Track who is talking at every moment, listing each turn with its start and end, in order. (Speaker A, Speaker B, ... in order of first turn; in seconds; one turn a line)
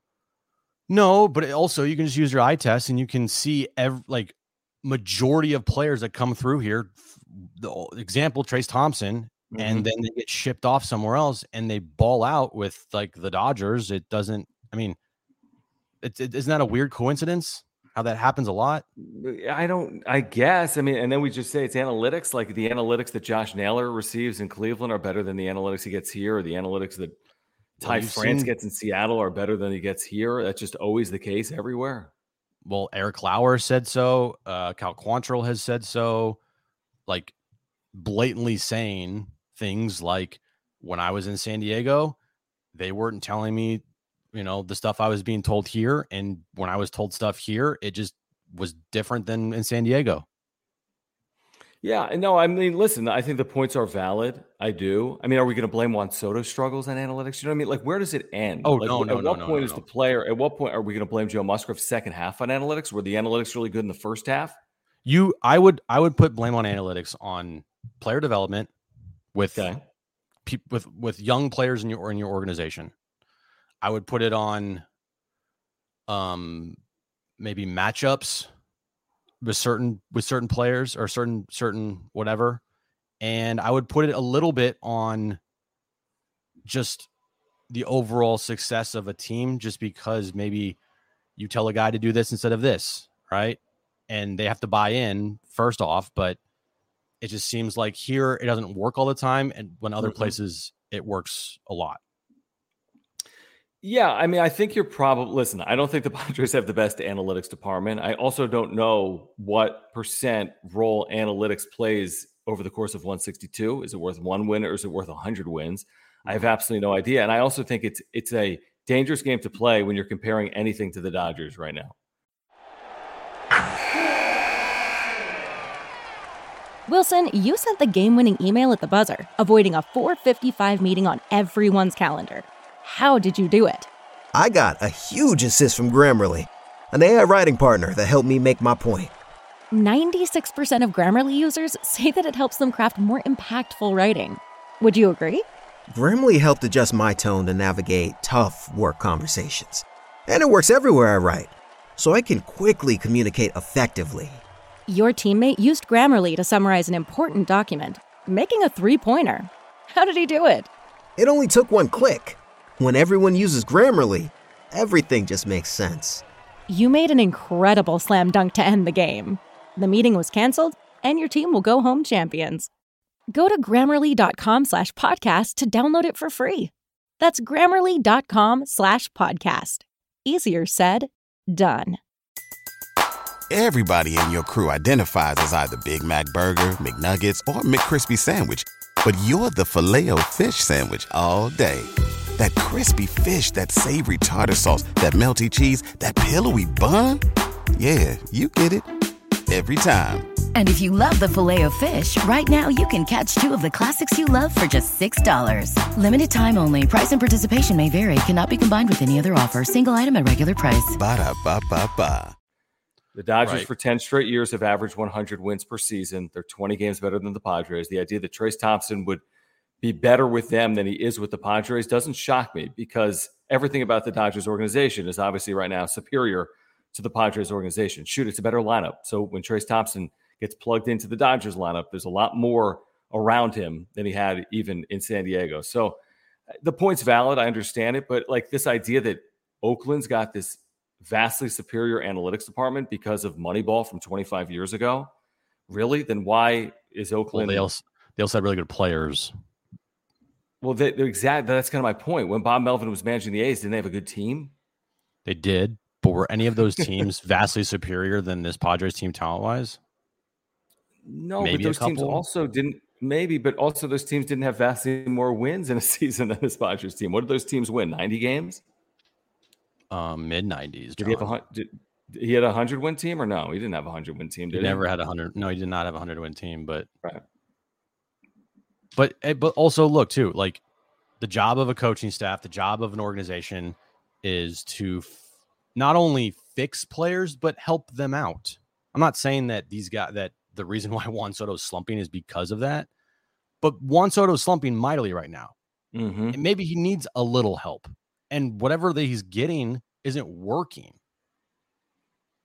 Speaker A: 0.9-15.0
Speaker B: 9.5-9.9
Speaker A: 16.0-18.8
Speaker B: 19.0-27.1
Speaker A: 27.8-28.5
Speaker B: 27.8-32.1
Speaker A: 32.6-36.4
Speaker A: 37.1-37.3
Speaker A: 37.9-42.1
Speaker A: 42.7-50.2
Speaker B: 51.8-64.6
Speaker A: 58.6-59.8
Speaker A: 65.0-68.7
Speaker A: 69.3-69.7
Speaker B: 69.5-69.8
Speaker A: 70.4-72.9
Speaker A: 73.8-74.8
Speaker A: 76.1-76.8
Speaker A: 77.4-78.5
Speaker A: 79.4-82.6
Speaker A: 83.2-85.4
Speaker A: 86.6-87.1
Speaker A: 87.7-90.8
Speaker A: 91.4-96.4
Speaker A: 97.2-102.0
Speaker B: 100.0-100.3
Speaker B: 103.8-121.9
Speaker C: 126.9-133.9
Speaker D: 134.3-139.1
Speaker C: 139.7-145.4
Speaker D: 145.9-154.4
Speaker C: 154.9-160.7
Speaker D: 161.2-166.2
Speaker C: 166.7-172.7
Speaker C: 173.3-182.0
Speaker E: 183.5-197.2
Speaker E: 197.8-198.9
Speaker E: 199.5-200.3
Speaker F: 200.5-211.0
Speaker E: 211.0-212.3
Speaker B: 213.1-219.2
Speaker A: 213.4-213.7
Speaker B: 219.8-236.0
Speaker B: 236.6-245.1
Speaker B: 245.7-247.7
Speaker A: 247.3-249.3
Speaker B: 250.6-254.5
Speaker A: 255.2-259.8
Speaker B: 261.0-268.6
Speaker A: 261.4-262.2
Speaker A: 269.9-271.3
Speaker B: 271.0-274.8
Speaker A: 274.5-276.9
Speaker A: 278.9-280.6
Speaker A: 281.2-285.2
Speaker A: 285.7-292.9
Speaker A: 293.6-295.5
Speaker B: 295.9-296.4
Speaker A: 296.3-300.9